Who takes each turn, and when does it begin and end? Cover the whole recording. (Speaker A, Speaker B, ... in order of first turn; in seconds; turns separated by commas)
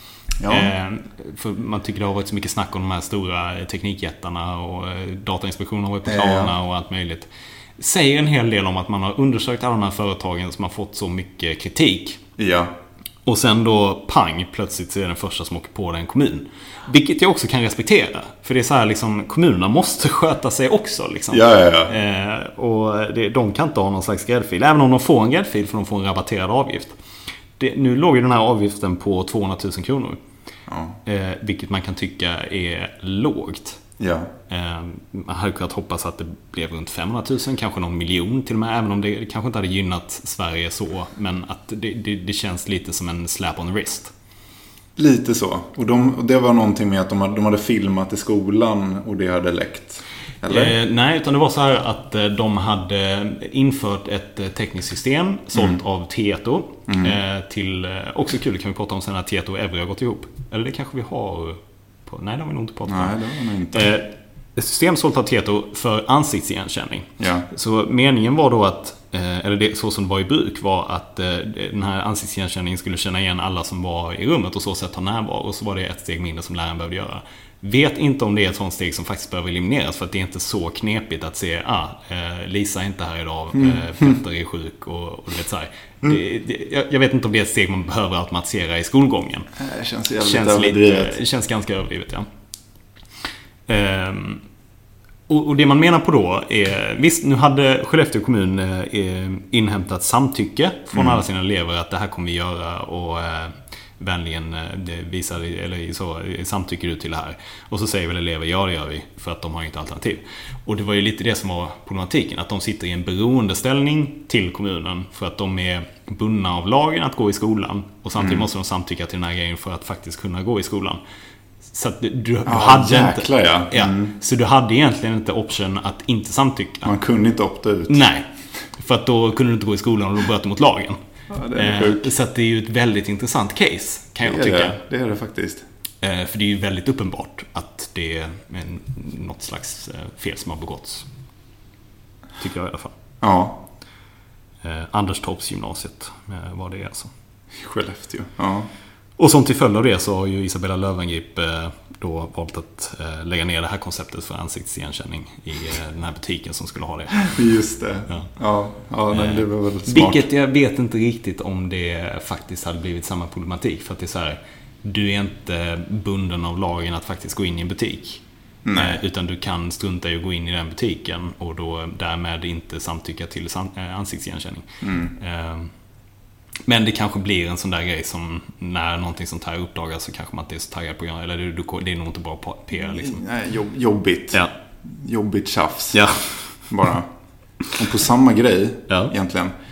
Speaker A: 0.4-0.7, Speaker B: 0.5-12.2, Speaker A: 6.1-6.5, Speaker A: 12.4-12.7, Speaker B: 13.2-27.0, Speaker A: 21.3-22.0, Speaker B: 27.6-30.2, Speaker A: 30.7-31.0, Speaker B: 31.1-33.8, Speaker A: 34.0-34.3, Speaker B: 34.5-44.1, Speaker A: 45.0-50.8, Speaker B: 50.5-63.2, Speaker A: 55.5-55.8, Speaker A: 56.9-57.2, Speaker A: 62.9-63.9, Speaker B: 63.7-89.5, Speaker A: 67.2-67.5, Speaker A: 83.5-84.2, Speaker A: 89.6-91.2, Speaker B: 90.2-92.3, Speaker B: 93.7-94.4, Speaker B: 95.3-121.0, Speaker A: 100.9-101.2, Speaker A: 118.2-118.5, Speaker B: 121.6-126.9, Speaker A: 122.5-124.2, Speaker A: 126.8-128.1, Speaker B: 127.9-131.0, Speaker A: 131.3-132.1, Speaker B: 131.6-134.8, Speaker A: 134.2-135.7, Speaker B: 136.0-141.1, Speaker B: 142.4-142.9, Speaker A: 143.2-143.6, Speaker B: 144.6-147.1, Speaker A: 147.5-148.7, Speaker B: 149.2-157.3, Speaker A: 157.2-160.3, Speaker B: 159.1-168.2, Speaker A: 168.7-169.0, Speaker B: 168.8-175.7, Speaker A: 174.8-175.2, Speaker B: 176.7-183.2, Speaker A: 182.8-186.1, Speaker B: 185.9-186.4, Speaker A: 186.7-187.1, Speaker A: 187.7-189.5